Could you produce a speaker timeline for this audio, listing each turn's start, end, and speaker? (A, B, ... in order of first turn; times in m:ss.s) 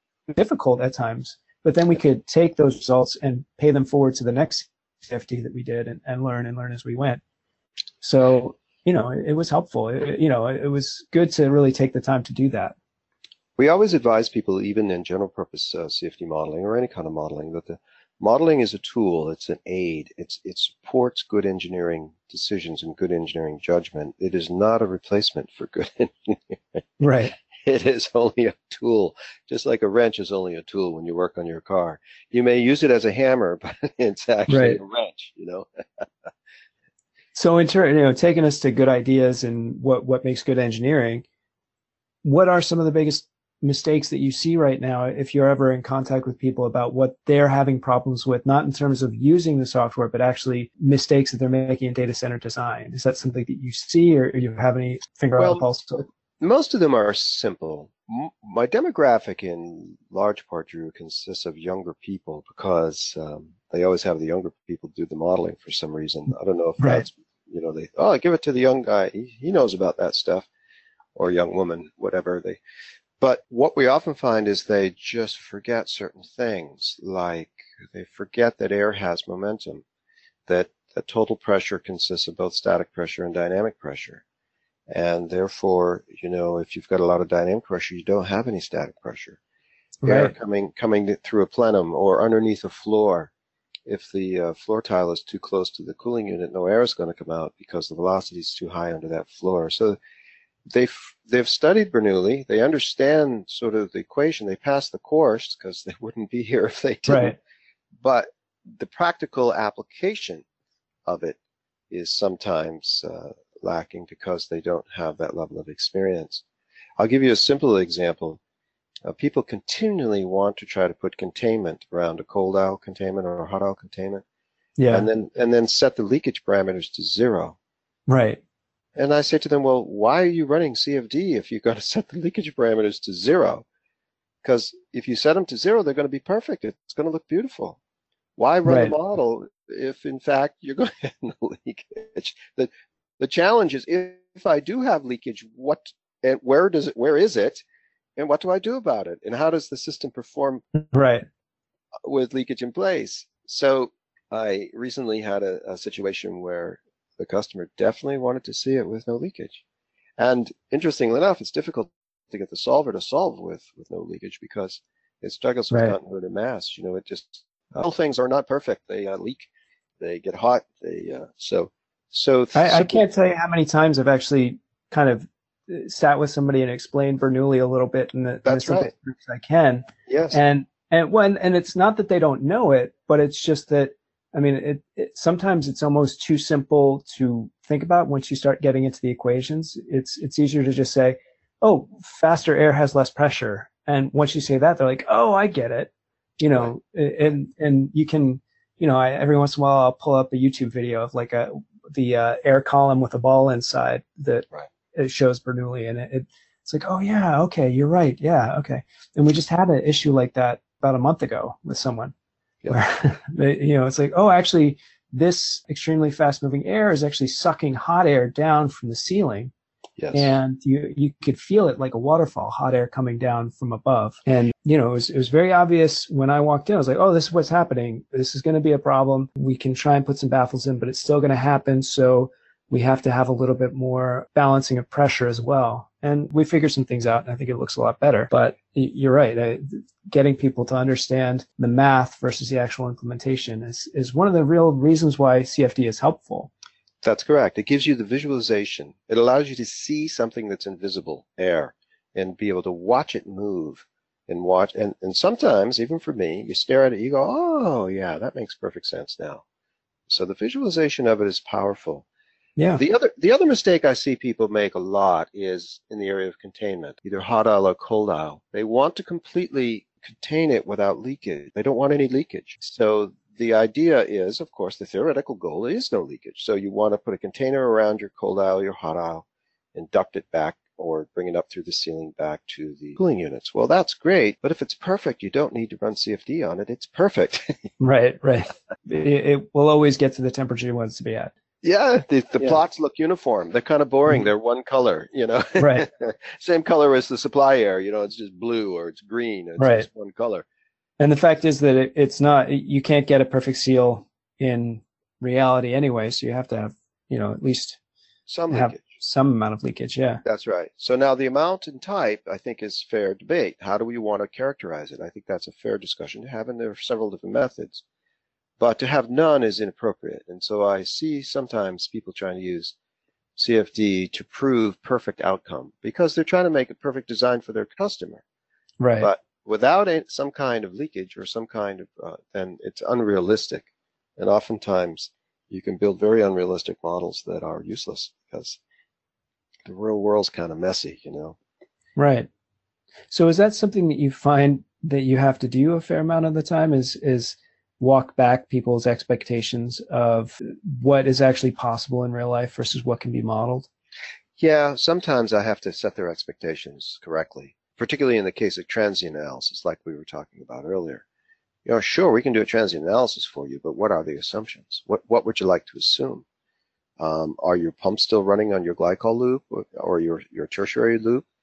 0:00.3-0:07.2 A
0:08.0-0:12.7 A
0:13.6-0:26.8 B
0:27.0-0:27.3 A
0:27.6-0:36.3 B
0:34.5-0:34.8 A
0:37.3-0:41.2 A
0:42.2-0:56.0 A
0:55.4-0:55.6 B
0:56.4-1:10.5 B
1:06.8-1:07.0 A
1:11.2-1:12.6 B
1:13.2-1:19.8 B
1:20.5-1:24.2 B
1:24.9-1:29.4 B
1:30.0-1:30.3 A
1:30.0-1:33.3 B
1:33.8-1:40.0 B
1:40.7-1:47.4 B
1:47.1-1:47.4 A
1:48.0-1:50.4 B
1:51.0-1:51.4 B
1:51.9-1:56.4 B
1:57.0-1:58.4 B
1:59.0-2:04.2 B
2:04.8-2:05.1 A
2:04.9-2:07.6 B
2:08.1-2:08.4 A
2:09.0-2:13.6 B
2:14.4-2:17.8 B
2:18.4-2:27.6 B
2:18.6-2:18.9 A
2:28.2-2:30.6 B
2:30.9-2:31.2 A
2:32.0-2:39.6 B
2:40.2-2:49.5 B
2:45.7-2:46.0 A
2:50.0-2:53.0 B
2:52.5-3:32.1 A
2:58.4-2:58.9 B
3:00.1-3:00.4 B
3:32.7-3:39.5 A
3:40.0-3:40.3 B
3:40.1-4:06.5 A
4:07.0-4:19.4 B
4:20.1-4:22.0 B
4:22.6-4:22.8 A
4:22.8-4:47.7 B
4:47.8-4:51.3 A
4:51.6-5:00.4 B
4:55.6-4:55.9 A
4:59.6-4:59.9 A
5:01.0-5:07.8 A
5:08.3-5:08.9 B
5:08.5-5:10.2 A
5:10.2-5:17.8 B
5:18.6-5:22.7 B
5:23.4-5:28.2 B
5:28.8-5:29.1 A
5:29.0-5:38.6 B
5:39.6-5:41.4 B
5:42.0-5:42.3 A
5:43.1-5:53.7 A
5:54.4-6:01.0 B
6:01.6-6:06.2 B
6:07.0-6:11.2 B